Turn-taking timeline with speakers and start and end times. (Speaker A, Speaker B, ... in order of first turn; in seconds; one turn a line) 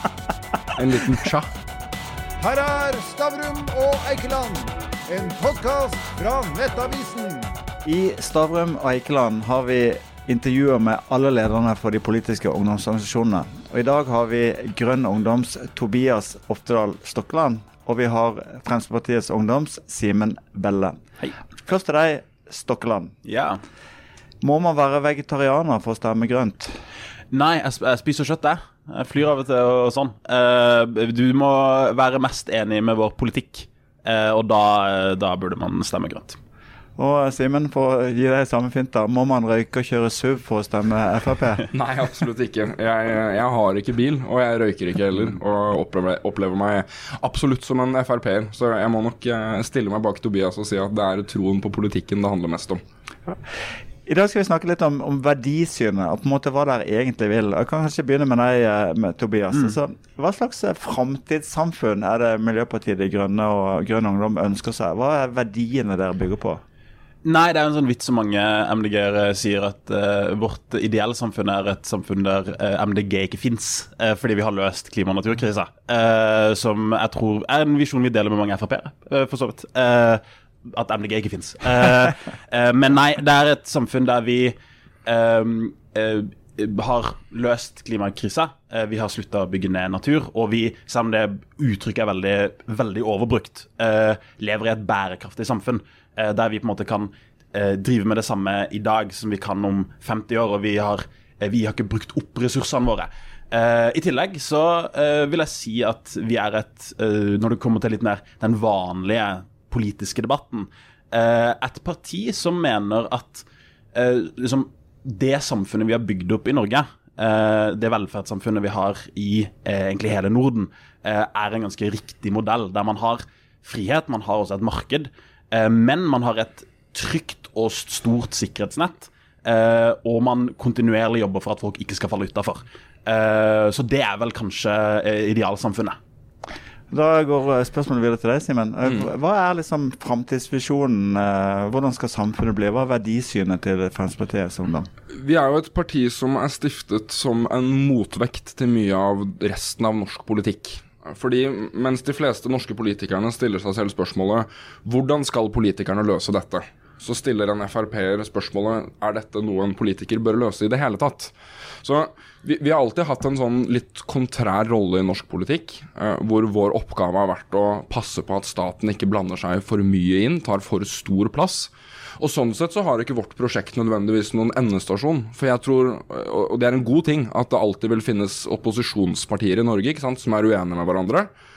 Speaker A: 0.7-1.5
Speaker B: 2.4-7.5
Speaker C: 7.8-21.0
Speaker C: 21.6-23.1
Speaker D: 23.2-23.6
Speaker C: 24.4-26.8
Speaker D: 27.3-36.4
Speaker C: 37.0-41.6
Speaker A: 41.7-52.8
Speaker C: 54.0-66.6
Speaker D: 67.2-136.0
Speaker C: 136.9-144.9
Speaker A: 145.1-181.3